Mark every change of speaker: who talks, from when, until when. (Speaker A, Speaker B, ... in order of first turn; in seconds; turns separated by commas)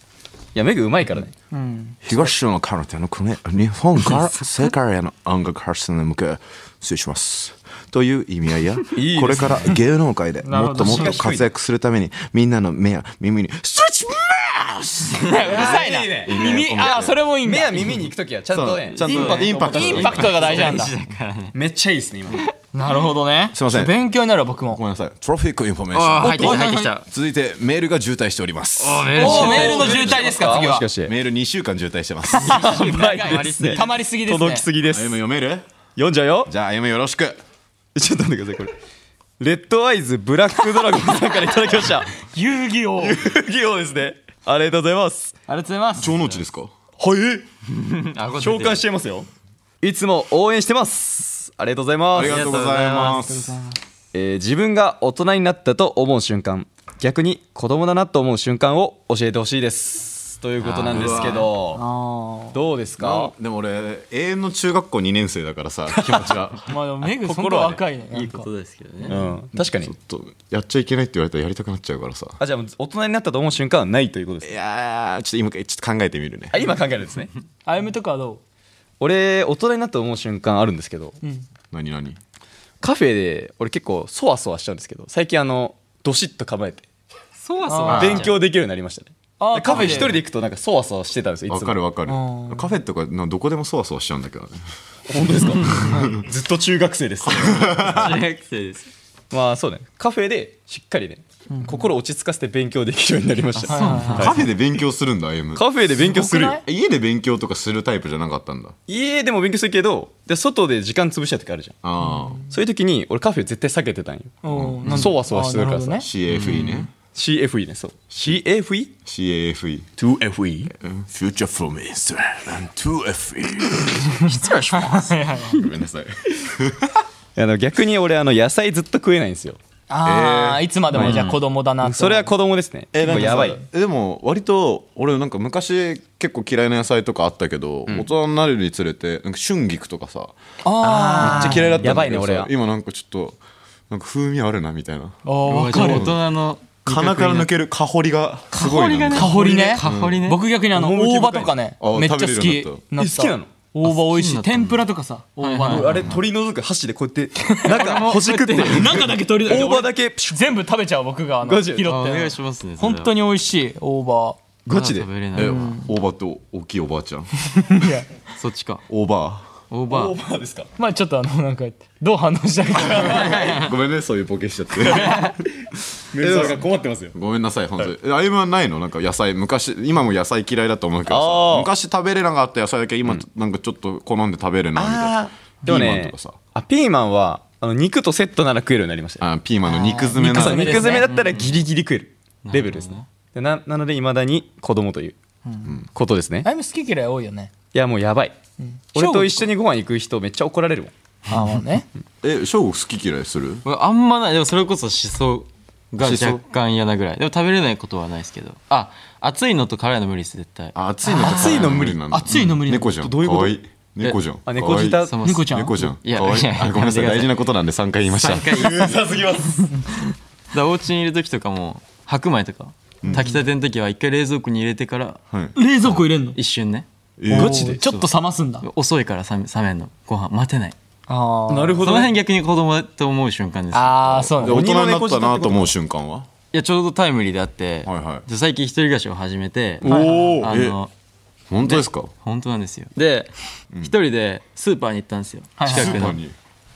Speaker A: 0.5-1.3, Speaker B: 1.5-2.0, Speaker C: 2.0-17.2, Speaker A: 8.9-9.8, Speaker B: 10.4-11.2, Speaker A: 10.8-11.5, Speaker B: 15.2-17.9, Speaker A: 15.4-20.9, Speaker C: 18.5-20.7, Speaker D: 19.0-19.5, Speaker B: 19.2-20.9, Speaker D: 20.1-21.6, Speaker A: 21.5-22.4, Speaker B: 22.7-24.8, Speaker C: 23.5-23.9, Speaker C: 24.7-29.5, Speaker D: 25.9-27.1, Speaker B: 26.2-26.9, Speaker D: 28.8-30.3, Speaker B: 29.1-30.9, Speaker A: 29.1-31.1, Speaker C: 31.0-32.7, Speaker D: 32.3-34.0, Speaker B: 32.4-34.6, Speaker A: 32.5-35.1, Speaker C: 34.8-35.6, Speaker A: 36.0-36.5, Speaker C: 36.5-37.4, Speaker A: 38.0-38.7, Speaker A: 39.4-42.1, Speaker B: 42.2-43.2, Speaker A: 43.0-45.4, Speaker B: 45.5-46.1, Speaker C: 46.0-46.7, Speaker A: 47.0-47.5, Speaker D: 47.7-48.9, Speaker A: 48.4-49.3, Speaker A: 49.8-52.4, Speaker C: 52.1-53.6, Speaker D: 52.1-53.2, Speaker B: 52.9-53.8, Speaker A: 54.1-61.8, Speaker D: 60.6-61.5, Speaker C: 60.9-61.5, Speaker B: 61.7-62.6, Speaker A: 62.5-63.3, Speaker C: 63.0-66.7, Speaker B: 66.7-68.5, Speaker A: 67.0-67.8, Speaker D: 68.1-69.2, Speaker A: 69.1-69.9, Speaker C: 69.2-72.4, Speaker A: 72.4-74.6, Speaker C: 74.4-76.6, Speaker A: 76.5-77.3, Speaker B: 77.7-78.4, Speaker A: 79.0-81.2, Speaker B: 81.2-81.5, Speaker C: 81.7-82.2, Speaker A: 82.8-86.8, Speaker D: 87.4-88.4, Speaker B: 87.7-88.3, Speaker A: 87.9-91.8, Speaker C: 87.9-88.2, Speaker B: 89.4-90.2, Speaker D: 89.7-90.0, Speaker C: 91.5-94.6, Speaker B: 92.1-92.7, Speaker A: 95.1-98.2, Speaker C: 95.7-96.2, Speaker C: 97.2-98.2, Speaker D: 97.8-98.9, Speaker A: 99.3-104.5, Speaker B: 101.5-101.9, Speaker D: 103.6-104.4, Speaker B: 103.7-104.4, Speaker C: 104.1-105.7, Speaker A: 105.6-106.6, Speaker B: 106.0-106.6, Speaker C: 106.6-108.8, Speaker A: 108.9-111.8, Speaker C: 111.8-112.4, Speaker B: 112.0-112.4, Speaker A: 112.5-116.1, Speaker B: 114.4-116.1, Speaker C: 114.5-115.1, Speaker C: 116.0-116.9, Speaker D: 116.3-116.9, Speaker A: 117.1-119.0, Speaker C: 119.1-120.0, Speaker A: 120.0-120.7, Speaker C: 120.8-124.2, Speaker D: 124.2-125.1, Speaker B: 124.2-125.6, Speaker C: 125.5-127.0, Speaker A: 127.4-129.6, Speaker B: 129.9-132.3, Speaker C: 130.1-131.0, Speaker A: 130.9-131.3, Speaker D: 130.9-131.4, Speaker A: 131.8-133.6, Speaker C: 132.9-140.3, Speaker B: 133.1-133.5, Speaker B: 140.6-141.8, Speaker A: 140.8-142.5, Speaker C: 141.2-145.2, Speaker B: 145.2-146.1, Speaker D: 145.5-147.5, Speaker C: 145.7-146.2, Speaker C: 146.8-150.2, Speaker D: 148.5-150.4, Speaker B: 149.1-156.1, Speaker A: 149.3-149.7, Speaker A: 150.7-151.6, Speaker C: 151.8-152.8, Speaker A: 153.0-153.5, Speaker D: 153.8-154.8, Speaker D: 155.4-156.1, Speaker A: 155.6-160.4, Speaker B: 157.4-157.8, Speaker D: 157.6-159.1, Speaker B: 158.6-164.4, Speaker A: 161.4-161.9, Speaker D: 161.8-163.1, Speaker A: 164.7-165.1, Speaker D: 164.7-165.6, Speaker C: 165.3-167.3, Speaker B: 165.4-165.9, Speaker B: 167.5-168.1, Speaker D: 168.4-168.8, Speaker C: 168.9-169.5, Speaker D: 169.7-170.2, Speaker A: 169.9-170.7, Speaker B: 170.8-173.4, Speaker A: 172.8-173.5, Speaker D: 173.0-173.7, Speaker C: 173.0-175.2, Speaker A: 174.8-175.3, Speaker D: 175.0-175.3, Speaker A: 176.1-177.2, Speaker C: 176.2-186.4, Speaker A: 181.1-181.7, Speaker A: 184.8-189.2, Speaker C: 189.2-191.0, Speaker B: 189.7-191.1, Speaker A: 190.2-195.2, Speaker D: 190.9-191.6, Speaker D: 192.4-193.1, Speaker B: 195.5-195.7, Speaker A: 195.9-196.5, Speaker B: 196.4-197.5, Speaker A: 197.7-198.4, Speaker B: 198.6-199.5, Speaker A: 198.9-200.9, Speaker B: 201.3-201.9, Speaker C: 202.2-203.6, Speaker D: 203.6-210.8, Speaker C: 206.0-206.4, Speaker C: 210.8-218.6, Speaker B: 211.1-212.9, Speaker A: 211.2-212.5, Speaker A: 213.0-213.6, Speaker A: 214.5-215.2, Speaker D: 214.8-217.4, Speaker B: 215.2-215.8, Speaker D: 218.1-219.6, Speaker A: 218.5-219.7, Speaker D: 220.5-225.2, Speaker C: 223.0-223.4, Speaker C: 225.3-225.6, Speaker B: 225.6-226.4, Speaker D: 225.9-226.9, Speaker C: 227.2-227.7, Speaker A: 227.3-227.8, Speaker B: 227.3-228.7, Speaker D: 227.8-228.1, Speaker D: 228.6-230.8, Speaker B: 231.1-231.9, Speaker A: 231.5-232.1, Speaker D: 231.8-234.3, Speaker B: 233.7-234.7, Speaker C: 234.3-236.3, Speaker A: 234.4-235.7, Speaker D: 236.5-240.9, Speaker C: 237.9-238.2, Speaker A: 239.8-240.5, Speaker B: 239.8-240.4, Speaker C: 240.4-240.8, Speaker C: 241.5-242.1, Speaker D: 241.6-246.2, Speaker B: 245.6-246.1, Speaker C: 245.7-246.3